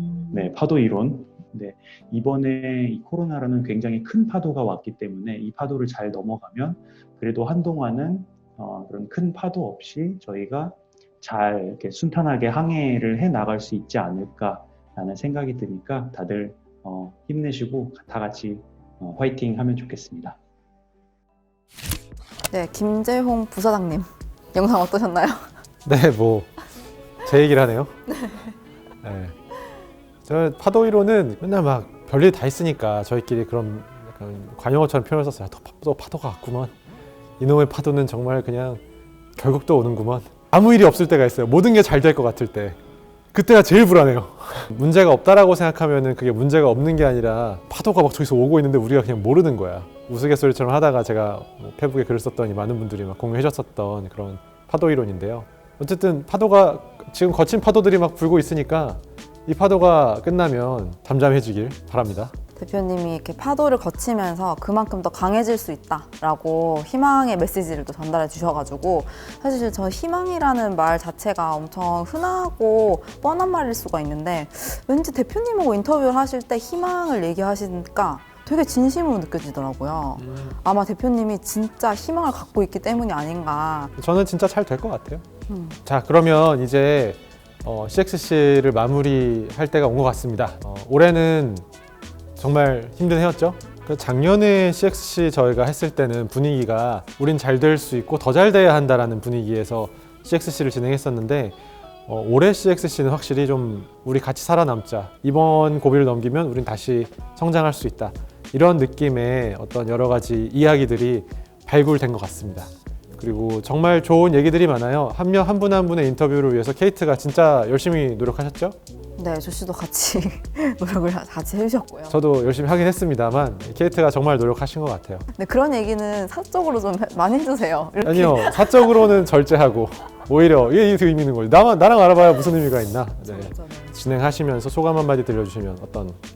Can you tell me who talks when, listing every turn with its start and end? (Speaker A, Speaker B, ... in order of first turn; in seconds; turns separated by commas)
Speaker A: 0.3-20.4, Speaker B: 22.5-25.5, Speaker C: 25.8-26.6, Speaker C: 27.2-28.0, Speaker C: 29.0-29.3, Speaker C: 30.2-36.8, Speaker C: 37.4-38.8, Speaker C: 39.4-42.8, Speaker C: 43.3-62.3, Speaker B: 62.5-83.9, Speaker C: 80.2-80.5, Speaker C: 84.0-85.2, Speaker B: 85.5-85.8, Speaker C: 85.8-91.6, Speaker C: 92.4-101.5, Speaker C: 102.1-118.8, Speaker B: 119.2-122.2, Speaker C: 122.1-125.2, Speaker B: 125.3-129.1, Speaker C: 128.0-136.2, Speaker B: 133.3-134.0